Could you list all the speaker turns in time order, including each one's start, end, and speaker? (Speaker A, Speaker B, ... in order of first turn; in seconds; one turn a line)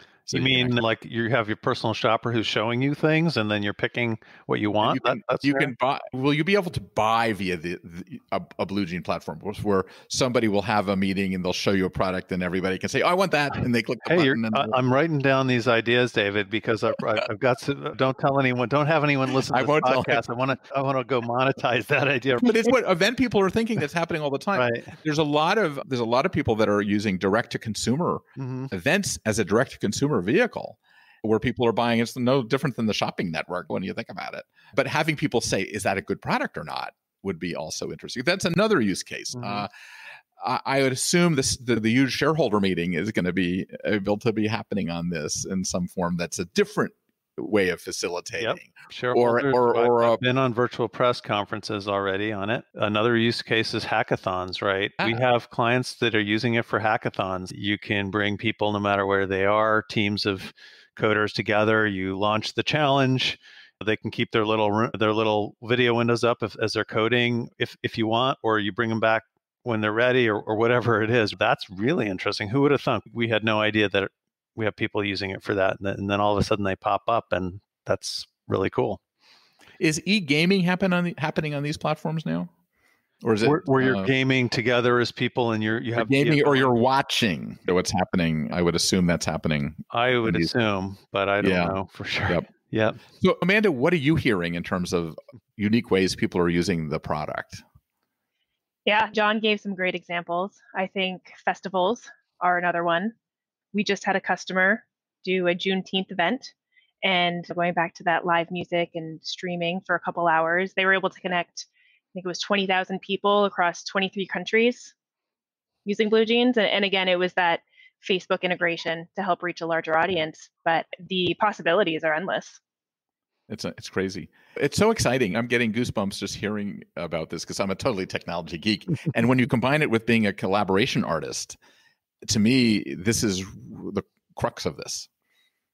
Speaker A: 0.3-5.7
Speaker B: 0.3-0.8
Speaker B: 4.8-14.7
Speaker A: 14.1-22.7
Speaker B: 19.5-20.2
Speaker B: 22.4-39.7
Speaker A: 24.5-24.9
Speaker A: 28.4-28.7
Speaker A: 39.4-39.6
Speaker B: 40.4-50.2
Speaker A: 48.4-79.0
Speaker B: 79.8-82.5
Speaker B: 83.2-84.1
Speaker A: 83.4-86.7
Speaker B: 86.0-90.5
Speaker A: 89.9-93.0
Speaker B: 91.4-91.8
Speaker B: 93.2-97.6
Speaker C: 98.8-103.1
Speaker C: 103.7-114.9
Speaker C: 115.8-122.6
Speaker B: 123.5-131.6
Speaker B: 132.2-135.1